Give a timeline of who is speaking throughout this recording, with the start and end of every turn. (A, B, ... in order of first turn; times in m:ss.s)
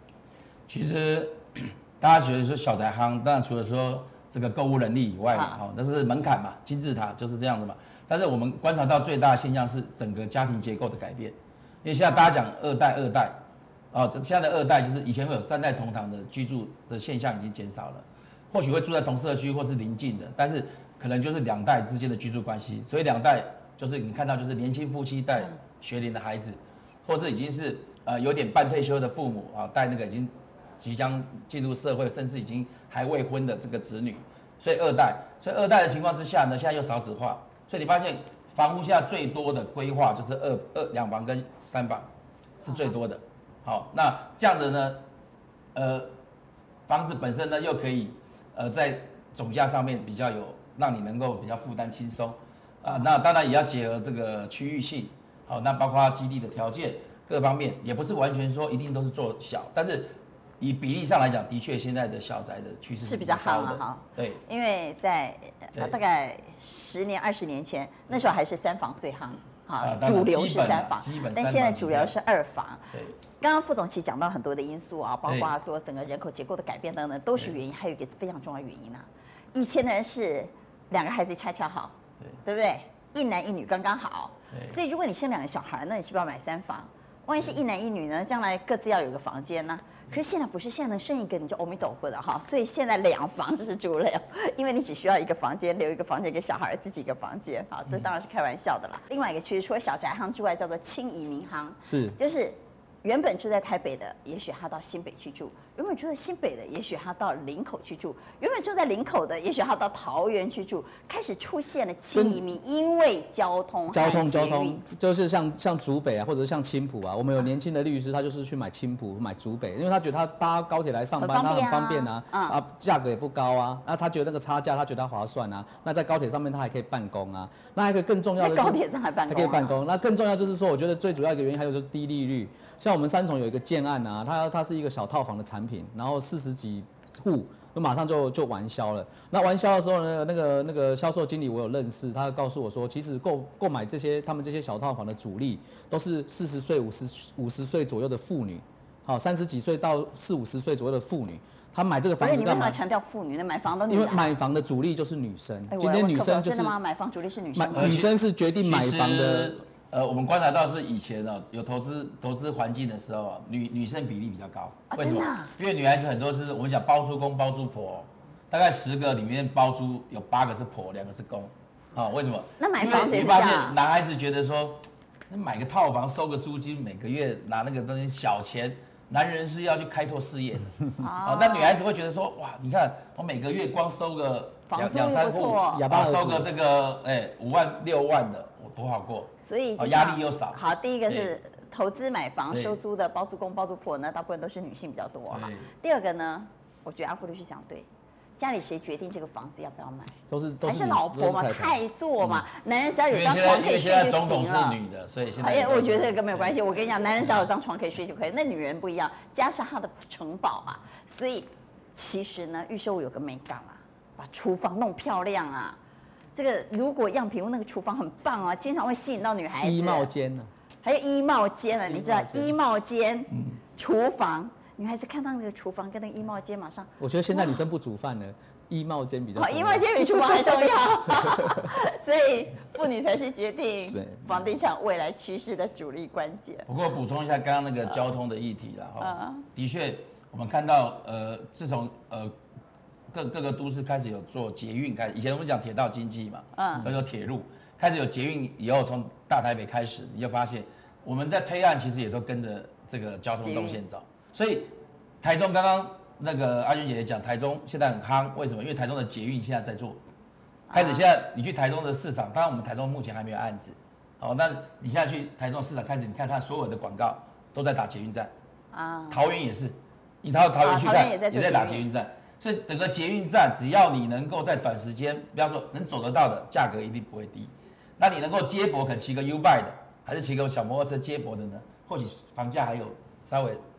0:00.7-0:13.4 A
0:05.3-0:05.6 B
0:13.9-0:42.1 A
0:42.6-0:45.0 A
0:45.7-0:46.1 A
0:46.9-1:04.4 A
1:03.0-1:54.8 B
1:09.8-1:12.1 A
1:15.2-1:15.5 A
1:24.5-1:24.8 A
1:41.8-1:42.2 C
1:52.1-1:52.4 C
1:53.9-2:32.8 C
2:01.2-2:02.6 B
2:08.4-2:09.8 B
2:32.2-2:34.3 B
2:33.9-2:36.7 C
2:35.7-2:38.0 B
2:37.5-2:39.6 C
2:37.7-3:11.3 A
2:44.9-2:45.5 B
2:52.6-2:53.8 B
3:01.0-3:01.8 B
3:04.7-3:05.8 B
3:05.7-3:06.5 C
3:09.4-3:24.8 B
3:12.5-3:12.8 A
3:15.3-3:15.7 A
3:20.3-3:21.8 C
3:23.1-3:27.5 A
3:25.4-3:35.8 B
3:36.3-3:40.1 B
3:39.6-3:40.5 C
3:40.8-3:47.6 B
3:41.9-3:42.5 C
3:43.3-3:43.6 A
3:47.0-3:50.5 C
3:49.4-3:56.7 B
3:51.1-3:51.7 C
3:53.9-3:54.5 C
3:56.7-4:02.3 A
3:59.0-3:59.4 B
4:03.1-4:20.0 A
4:06.5-4:06.9 B
4:13.4-4:13.8 B
4:20.7-4:21.1 B
4:20.7-4:28.3 A
4:28.7-4:29.2 B
4:29.1-4:43.6 A
4:30.6-4:31.8 B